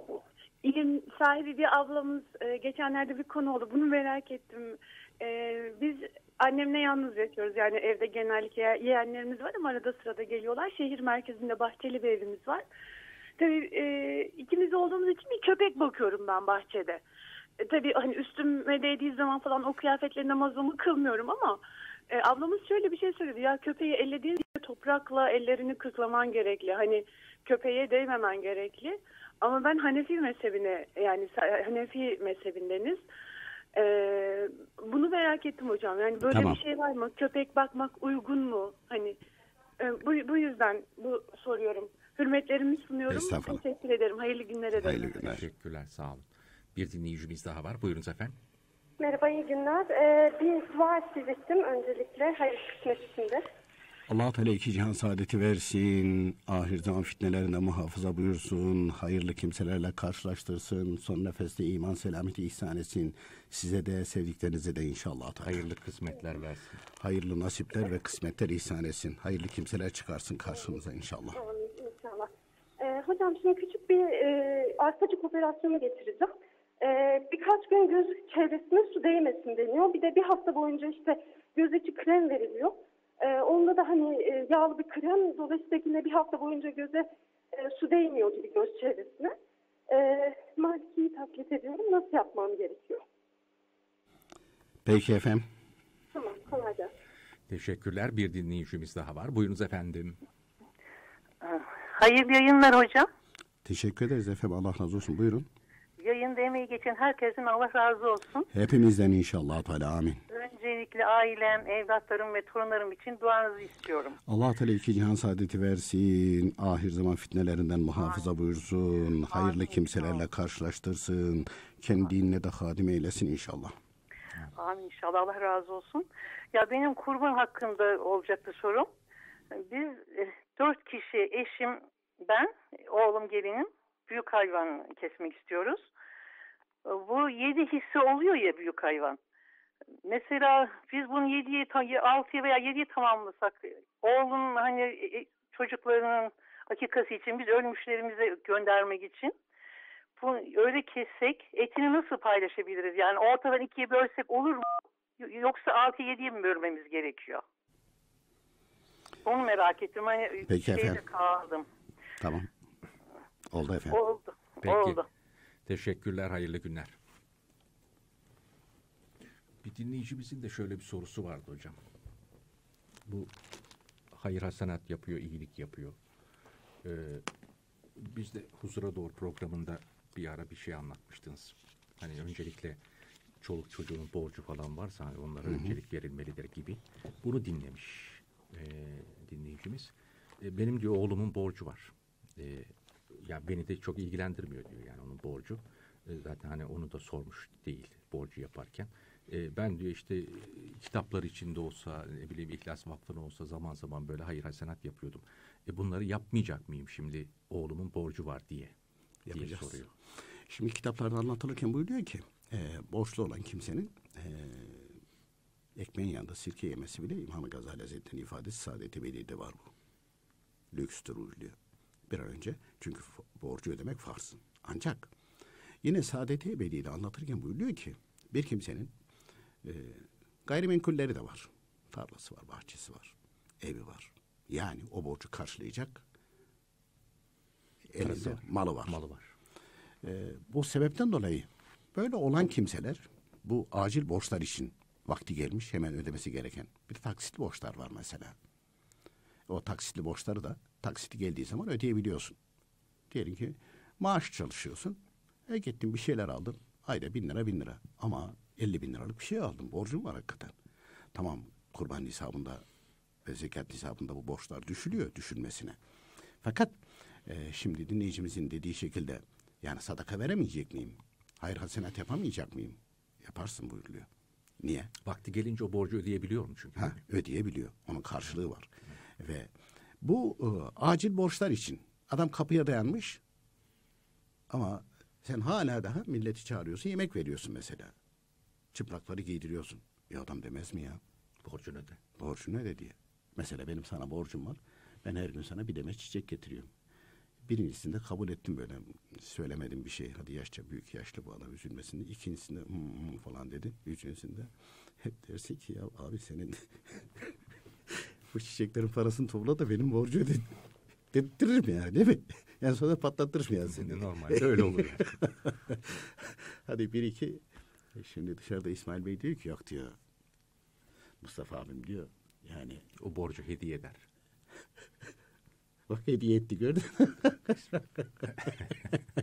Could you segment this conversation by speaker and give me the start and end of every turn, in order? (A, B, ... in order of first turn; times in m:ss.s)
0:00.6-0:12.7 A
0:13.4-0:17.0 A
0:17.6-0:33.0 A
0:33.7-0:39.2 A
0:36.3-0:36.6 B
0:39.8-0:45.3 A
0:43.1-0:43.6 B
0:44.8-0:45.4 B
0:45.2-0:48.4 C
0:49.0-0:53.4 D
0:54.1-1:05.7 B
1:05.4-1:06.8 C
1:07.0-1:11.4 B
1:11.3-1:29.3 D
1:29.9-1:33.0 D
1:34.8-1:35.5 B
1:36.1-1:36.9 D
1:37.5-1:40.2 C
1:41.4-1:43.1 E
1:43.6-1:45.5 B
1:46.0-1:48.5 E
1:48.5-1:50.2 B
1:50.3-1:54.2 E
1:54.2-2:03.8 B
2:04.6-2:08.9 E
2:09.5-2:15.9 E
2:16.8-2:19.2 E
2:20.0-2:29.3 E
2:30.2-2:37.4 E
2:39.2-2:41.6 E
2:40.5-2:41.0 B
2:42.2-2:42.5 B
2:43.5-2:44.0 B
2:43.9-2:45.0 E
2:44.6-2:45.0 C
2:45.6-2:46.9 C
2:49.6-2:51.8 C
2:53.1-2:53.3 C
2:54.1-2:56.0 C
2:56.8-2:57.2 C
2:58.0-3:02.8 C
3:03.4-3:28.7 C
3:05.4-3:05.8 B
3:29.2-3:29.9 B
3:29.3-3:29.9 C
3:30.5-3:34.9 B
3:35.8-3:39.7 B
3:40.7-3:41.6 B
3:42.1-3:45.1 B
3:45.8-3:48.9 B
3:49.6-3:56.0 B
3:57.9-3:59.0 B
3:58.0-3:59.3 C
4:00.0-4:08.4 B
4:09.5-4:12.4 B
4:13.1-4:20.5 B
4:21.1-4:22.6 B
4:23.2-4:25.8 B
4:26.4-4:26.7 B
4:27.2-4:34.1 B
4:34.6-4:34.9 B
4:35.0-4:37.0 C
4:36.8-4:43.2 B
4:44.5-4:47.9 B
4:48.7-4:51.0 B
4:51.4-4:52.0 C
4:52.2-4:56.7 B
4:57.4-5:07.3 B
5:07.9-5:10.5 B
5:11.1-5:20.0 B
5:13.7-5:15.0 C
5:21.2-5:22.8 B
5:23.0-5:24.0 C
5:25.9-5:28.7 B